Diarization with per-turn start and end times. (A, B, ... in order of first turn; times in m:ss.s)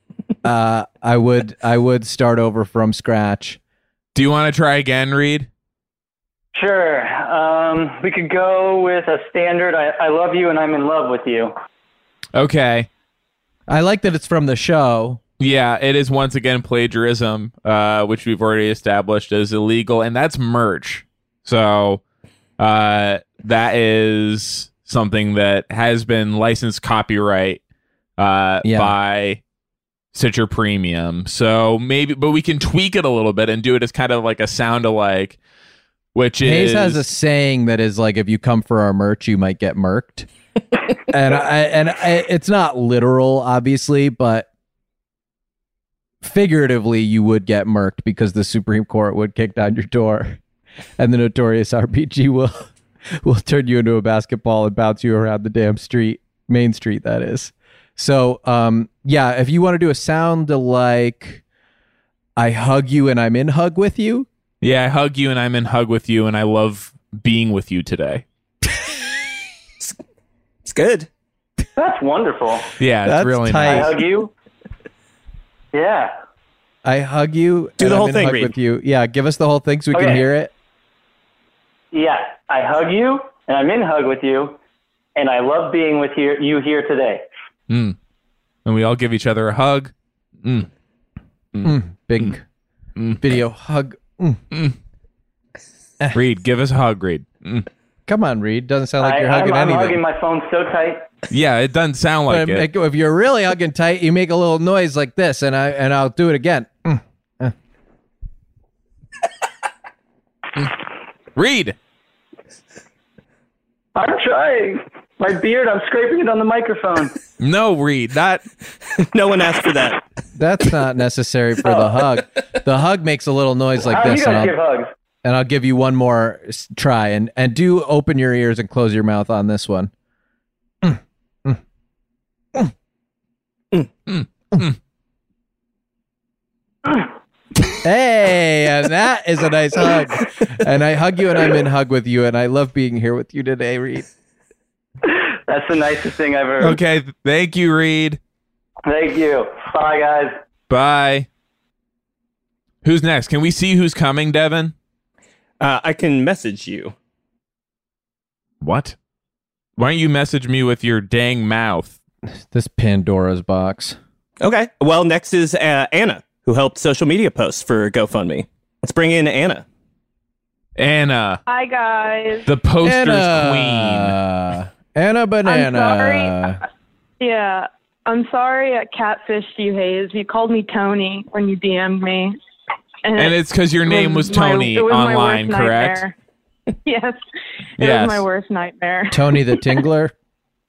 0:00.4-0:03.6 A
0:04.1-0:05.5 B
0:06.5-0:11.5 C
0:12.3-0:12.9 B
0:13.7-0:15.2 A
0:15.4-0:22.0 B
0:22.6-0:27.6 B
0:28.2-0:29.4 B
0:28.6-0:28.9 A
0:30.1-0:35.4 B
0:36.1-0:37.0 B
0:36.4-0:40.3 A
0:41.1-0:44.5 A
0:46.2-0:50.4 A
0:51.0-0:52.7 A
0:53.2-1:01.4 A
1:02.4-1:04.3 A
1:04.6-1:08.2 B
1:10.6-1:11.1 D
1:11.8-1:12.7 C
1:12.8-1:13.9 B
1:13.0-1:14.0 A
1:13.6-1:14.3 C
1:15.7-1:16.1 C
1:16.8-1:20.5 A
1:17.8-1:18.5 D
1:19.9-1:20.2 C
1:21.9-1:24.6 C
1:25.2-1:27.2 C
1:27.7-1:28.0 B
1:28.6-1:29.9 B
1:30.4-1:30.7 B
1:31.5-1:32.3 B
1:31.6-1:32.4 A
1:33.0-1:33.3 B
1:33.2-1:34.4 A
1:36.1-1:37.7 B
1:38.1-1:40.0 A
1:39.0-1:41.0 C
1:41.3-1:42.7 B
1:42.3-1:47.5 A
1:51.4-1:51.7 B
1:53.9-1:57.1 C
1:57.4-1:58.4 B
1:59.1-2:00.0 D
2:00.3-2:04.5 A
2:03.8-2:04.9 C
2:05.2-2:09.9 A
2:10.8-2:11.6 A
2:17.8-2:24.0 A
2:25.0-2:26.8 C
2:26.6-2:28.2 B
2:28.8-2:30.4 C
2:30.7-2:31.3 B
2:32.8-2:34.7 B
2:35.6-2:36.9 D
2:38.6-2:38.9 B
2:39.8-2:42.0 B
2:42.5-2:44.0 A
2:44.4-2:49.6 D
2:50.8-2:51.4 B
2:51.5-2:52.4 E
2:52.4-2:54.2 B
2:52.8-2:56.6 A
2:55.4-2:56.4 E
2:57.2-3:02.4 E
3:03.0-3:06.1 E
3:03.1-3:06.1 B
3:06.8-3:07.2 E
3:07.8-3:08.2 B
3:07.8-3:09.3 E
3:09.1-3:10.1 A